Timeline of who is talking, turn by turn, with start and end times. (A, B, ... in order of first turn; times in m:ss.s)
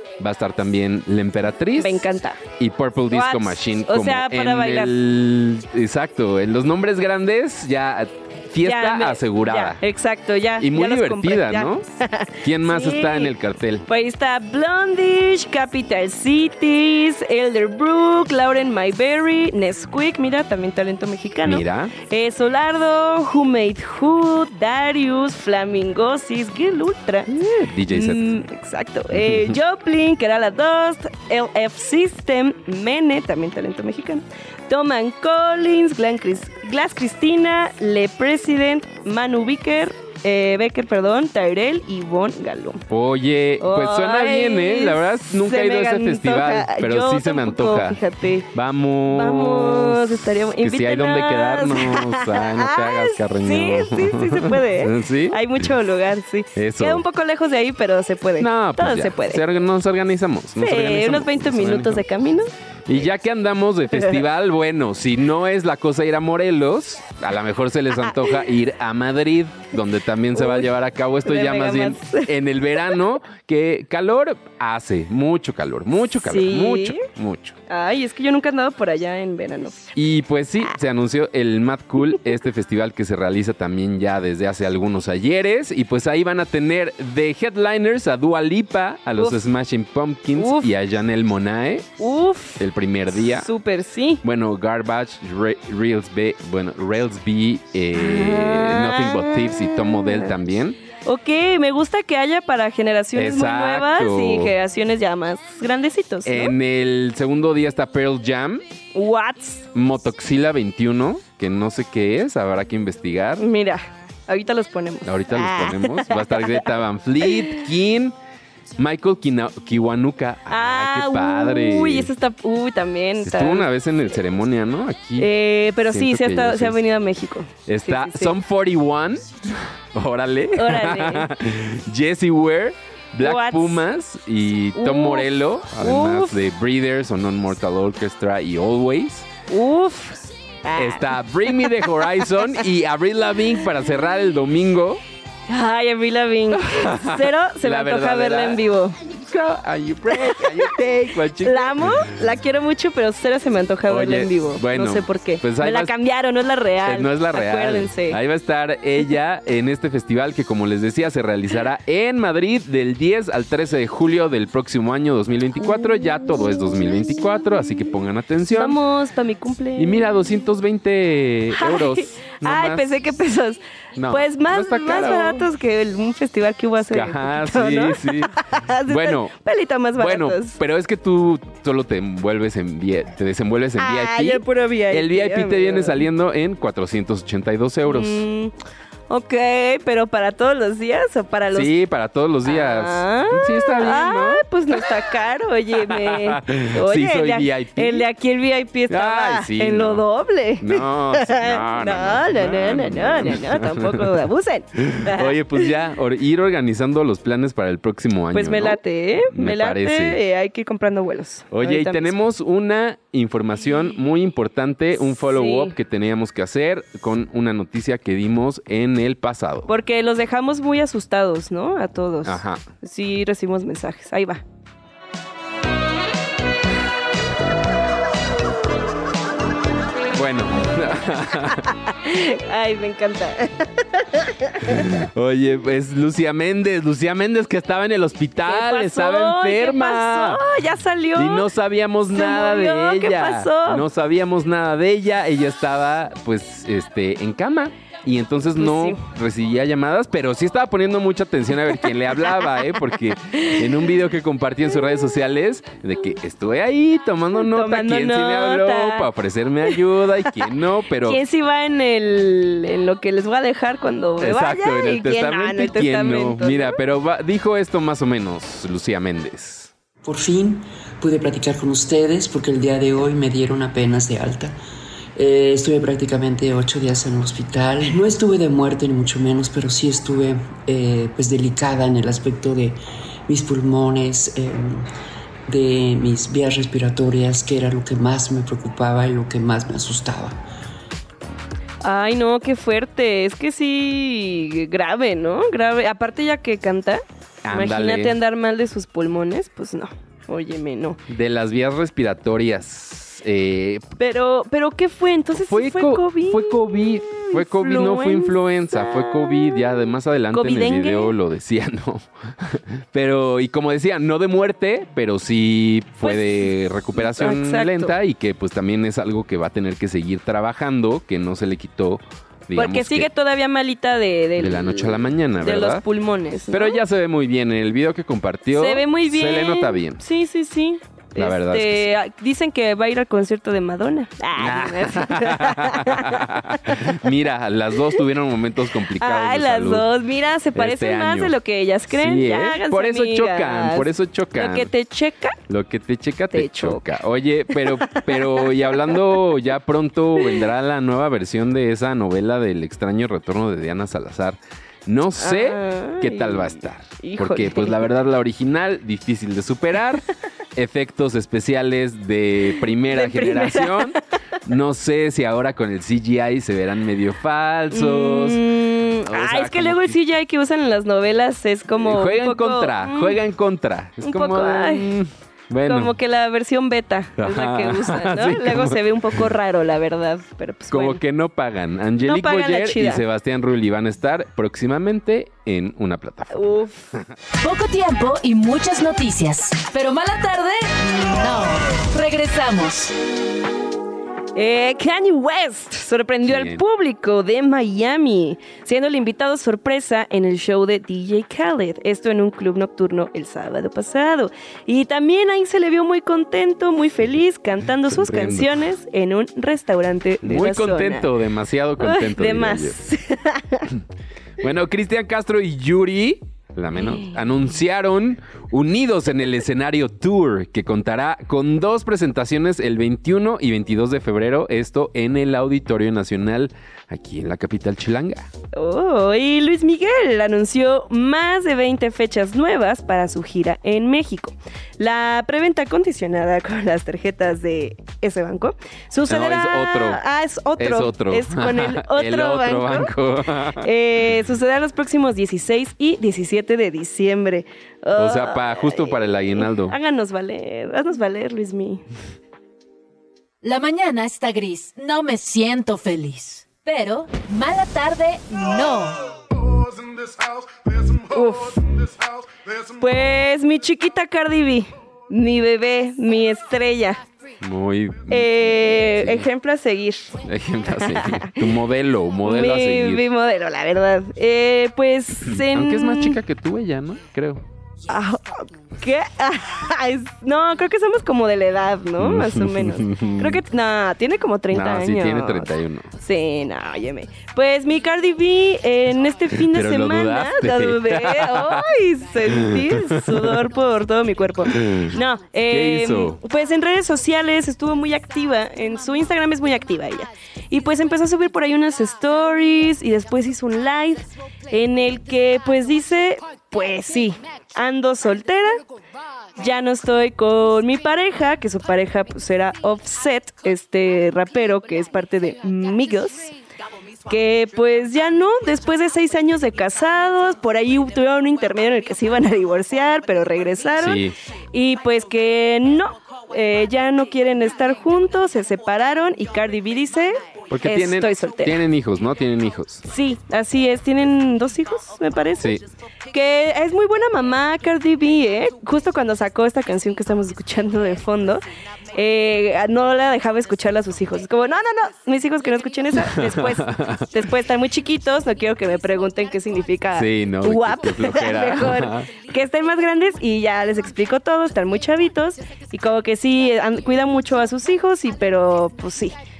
0:00.2-0:02.0 A
0:01.8-0:02.4 B
0:02.6-0:09.8 A
0:03.1-0:04.9 B
0:08.6-0:13.3 B
0:10.6-0:11.8 A
0:12.4-0:13.8 A
0:13.9-0:42.8 B
0:21.4-0:21.9 A
0:27.3-0:28.4 A
0:29.1-0:29.6 A
0:42.9-0:48.0 A
0:43.6-0:48.5 B
0:48.5-0:55.4 A
0:49.1-0:59.4 B
0:56.6-0:57.0 A
0:58.4-1:02.0 A
1:00.6-1:03.0 B
1:02.9-1:17.6 A
1:08.0-1:08.4 B
1:10.3-1:10.7 B
1:11.2-1:12.3 B
1:16.2-1:17.0 B
1:17.7-1:19.9 B
1:20.0-1:31.9 A
1:22.0-1:22.4 B
1:29.2-1:29.4 B
1:30.4-1:30.7 B
1:32.0-1:32.6 B
1:32.6-1:33.5 A
1:33.3-1:34.2 B
1:34.2-1:40.8 A
1:37.9-1:40.3 B
1:41.0-1:46.5 B
1:43.2-1:44.5 A
1:46.2-1:48.6 A
1:48.9-1:49.7 B
1:49.7-1:53.4 A
1:53.4-1:56.7 B
1:55.0-1:58.1 A
1:57.2-1:57.6 B
1:58.8-2:02.1 A
2:00.5-2:03.7 B
2:03.2-2:05.3 A
2:05.2-2:08.3 B
2:05.8-2:06.8 A
2:07.7-2:19.3 A
2:10.6-2:11.3 B
2:13.2-2:13.8 B
2:14.8-2:16.4 B
2:19.5-2:22.2 B
2:20.8-2:25.0 A
2:25.5-2:29.0 B
2:26.6-2:32.1 A
2:30.1-2:38.2 B
2:33.9-2:35.9 A
2:36.8-2:48.8 A
2:48.5-2:50.1 B
2:49.8-2:52.9 A
2:51.5-3:00.6 B
2:54.0-2:55.5 A
2:56.9-2:59.3 A
3:00.0-3:08.2 A
3:03.8-3:06.0 B
3:07.8-3:08.5 B
3:09.1-3:11.7 B
3:11.5-3:14.4 A
3:12.4-3:25.7 B
3:15.9-3:18.0 A
3:18.9-3:20.0 A
3:20.6-3:24.1 A
3:24.8-3:28.8 A
3:28.3-3:32.1 B
3:29.3-3:30.2 A
3:31.5-3:39.7 A
3:35.3-3:35.7 B
3:39.7-3:44.4 B
3:42.2-3:42.6 A
3:50.1-3:51.7 A
3:51.9-3:54.9 B
3:54.6-4:00.4 A
3:58.4-4:01.5 B
4:01.2-4:21.2 A
4:02.1-4:03.8 B
4:08.6-4:09.0 B
4:13.3-4:13.6 B
4:17.3-4:19.1 B
4:21.0-4:26.8 B
4:24.2-4:29.7 A
4:30.0-4:34.6 C
4:35.2-4:44.9 C
4:45.5-4:50.4 C
4:51.8-5:01.0 B
4:57.4-4:58.2 A
5:01.1-5:03.8 A
5:04.0-5:06.6 B
5:05.4-5:23.1 A
5:07.2-5:11.1 B
5:16.0-5:17.9 B
5:22.6-5:26.8 B
5:24.4-5:25.8 A
5:26.5-5:30.0 A
5:28.5-5:36.8 B
5:31.2-5:31.9 A
5:34.4-5:39.9 A
5:39.0-5:45.4 B
5:40.5-5:41.4 A
5:41.9-5:44.7 A
5:45.5-6:08.4 A
5:46.3-5:46.8 B
5:47.5-5:49.2 B
5:55.2-5:57.8 B
6:02.9-6:04.0 B
6:07.7-6:13.2 B
6:09.1-6:10.0 A
6:11.8-6:15.9 A
6:14.0-6:14.9 B
6:15.6-6:21.0 B
6:17.2-6:19.2 A
6:20.7-6:26.4 A
6:22.0-6:23.0 B
6:26.3-6:26.9 B
6:27.4-6:32.9 D
6:34.3-6:51.1 B
6:36.2-6:36.6 A
6:47.8-6:48.5 A
6:50.2-6:52.8 A
6:51.8-6:53.7 B
6:54.4-7:08.3 A
6:56.8-6:57.1 B
7:08.5-7:22.9 B
7:19.1-7:20.0 A
7:20.6-7:23.6 A
7:23.6-7:31.8 B
7:28.0-7:29.7 A
7:33.4-7:39.0 D
7:40.9-7:41.7 B
7:42.7-7:47.0 B
7:47.4-7:49.3 A
7:48.1-7:50.2 B
7:50.2-7:53.1 A
7:50.7-7:51.4 B
7:52.2-7:56.2 B
7:55.3-7:57.4 A
7:57.9-8:05.5 B
8:02.0-8:03.4 A
8:04.5-8:05.9 A
8:06.0-8:28.6 B
8:09.4-8:11.6 A
8:12.3-8:13.3 A
8:14.5-8:14.9 A
8:15.5-8:16.2 A
8:29.4-8:36.3 B
8:37.0-8:51.6 B
8:43.8-8:44.1 A
8:50.5-8:52.8 A
8:52.8-8:55.6 B
8:55.4-8:55.6 A
8:56.1-9:01.4 B
9:01.9-9:19.1 B
9:05.9-9:07.1 A
9:09.9-9:12.1 A